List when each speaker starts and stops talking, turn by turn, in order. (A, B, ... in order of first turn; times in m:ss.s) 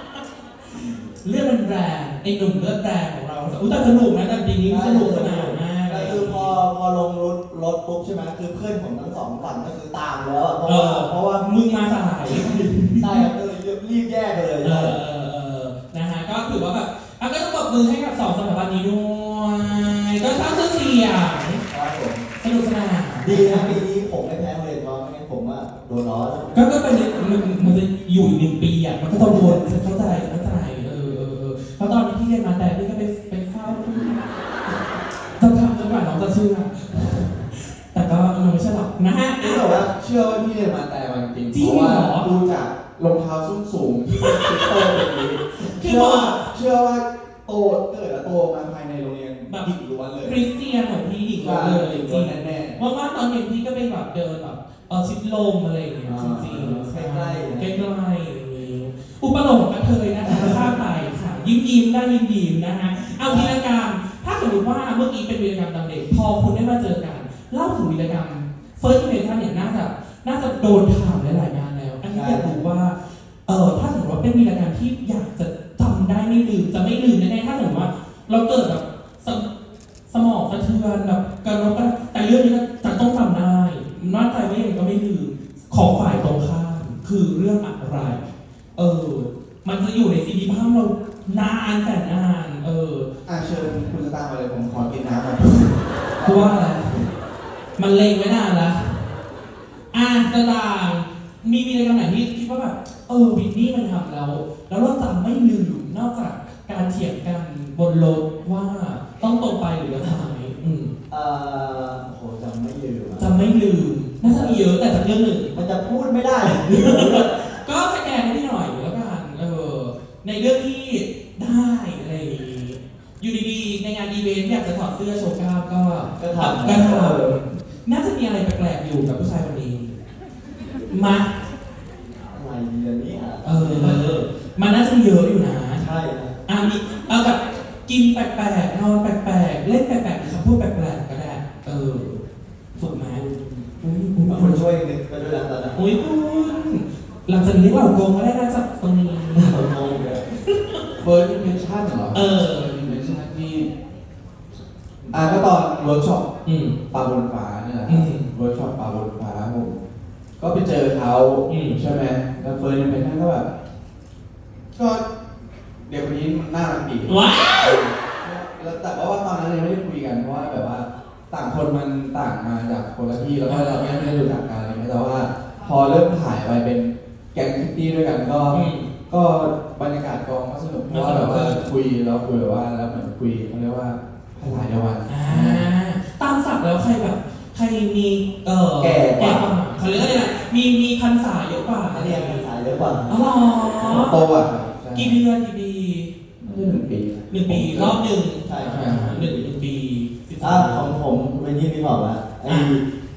0:00.7-0:01.1 A
0:01.2-0:06.6 B
0:04.6-0:11.5 A
0:10.6-0:13.3 B
0:12.2-0:15.0 A
0:14.6-0:21.6 B
0:21.7-0:22.3 A
0:22.4-0:23.8 B
0:23.2-0:26.6 A
0:26.5-0:34.2 B
0:29.1-0:29.8 A
0:35.4-0:39.8 B
0:39.4-0:50.4 C
0:41.5-0:42.3 B
0:44.2-0:45.0 B
0:45.6-0:46.5 B
0:50.2-1:19.4 B
0:51.4-0:52.8 C
0:56.0-0:56.6 C
0:56.2-0:57.8 A
1:00.2-1:00.7 A
1:03.3-1:03.6 A
1:12.1-1:12.6 A
1:20.1-1:28.2 B
1:28.8-1:33.1 B
1:33.3-1:36.7 C
1:36.2-1:37.1 B
1:37.8-1:39.1 B
1:39.9-1:50.9 B
1:51.1-1:53.3 A
1:53.2-1:55.5 B
1:54.2-1:54.7 A
1:55.5-1:57.5 A
1:56.7-2:10.0 B
2:06.2-2:07.4 A
2:10.9-2:11.3 B
2:12.3-2:14.1 A
2:13.4-2:15.9 B
2:15.8-2:16.4 A
2:16.5-2:22.2 B
2:22.7-2:23.2 B
2:22.8-2:25.8 A
2:23.8-2:24.6 B
2:25.8-2:29.8 B
2:29.4-2:30.2 A
2:30.3-2:30.8 B
2:31.0-2:33.7 C
2:32.1-2:33.0 B
2:35.1-2:35.4 A
2:35.1-2:36.3 C
2:36.4-2:36.8 B
2:36.9-2:39.8 C
2:37.9-2:38.3 B
2:40.4-2:43.5 C
2:41.5-2:41.8 B
2:44.8-2:45.0 C
2:45.9-3:05.7 C
2:47.1-2:47.9 B
2:53.5-2:54.3 B
2:58.5-2:58.9 B
3:00.9-3:01.6 B
3:05.1-3:12.5 B
3:08.8-3:10.2 C
3:11.9-3:13.2 A
3:13.1-3:14.2 B
3:13.8-3:15.2 C
3:14.9-3:16.1 B
3:16.4-3:18.0 C
3:17.3-3:20.9 B
3:18.4-3:19.5 A
3:18.7-3:19.1 C
3:20.4-3:22.8 A
3:22.5-3:22.8 B